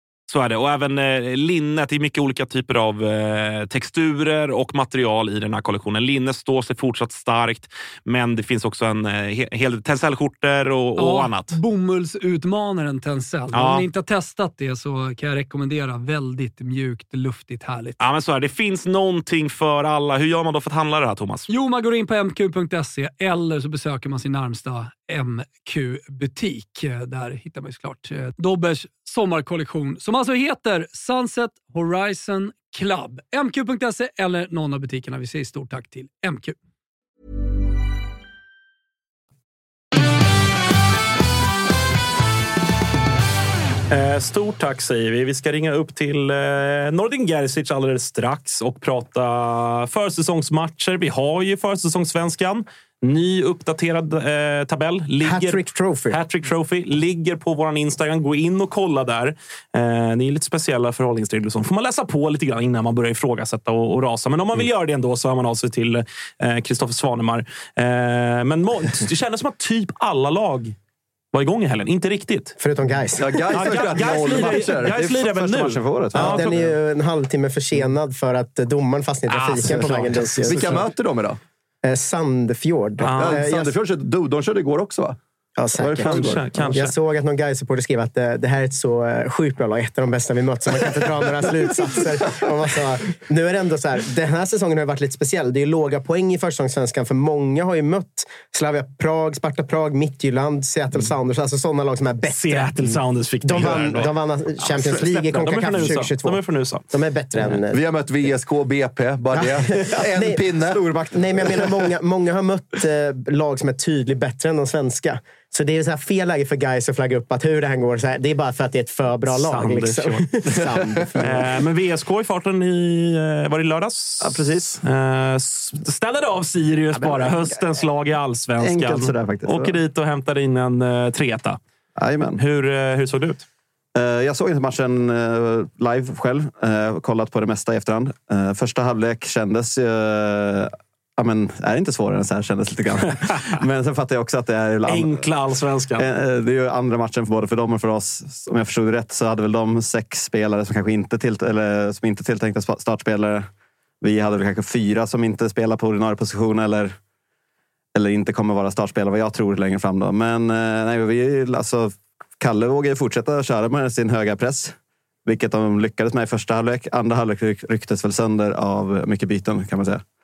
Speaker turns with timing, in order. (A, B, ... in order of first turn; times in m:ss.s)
0:00.3-0:11.6 A
0:11.0-0:18.0 B
0:13.5-0:13.9 A
0:18.0-0:21.5 A
0:21.5-0:36.6 B
0:43.9-1:10.8 A
0:55.2-0:56.2 C
1:11.3-1:12.6 A
1:12.6-1:13.7 C
1:13.2-1:15.1 D
1:13.5-1:16.5 A
1:14.8-1:16.6 E
1:16.1-1:20.8 C
1:19.3-1:20.6 A
1:20.4-1:21.4 D
1:21.8-1:23.7 C
1:23.0-1:23.4 A
1:23.1-1:25.2 D
1:25.6-1:42.7 C
1:25.8-1:26.7 D
1:26.0-1:26.9 A
1:42.3-1:46.8 A
1:43.4-1:47.8 C
1:47.7-1:50.8 D
1:49.3-1:50.4 C
1:50.7-1:51.2 E
1:51.1-2:01.4 C
1:59.3-2:00.2 A
2:01.2-2:11.6 A
2:04.2-2:04.8 E
2:06.9-2:07.6 E
2:08.6-2:09.8 E
2:12.0-2:12.4 E
2:12.4-2:13.4 A
2:13.9-2:25.4 E
2:24.8-2:26.0 A
2:26.0-2:33.5 E
2:34.0-2:37.0 E
2:37.9-2:50.0 E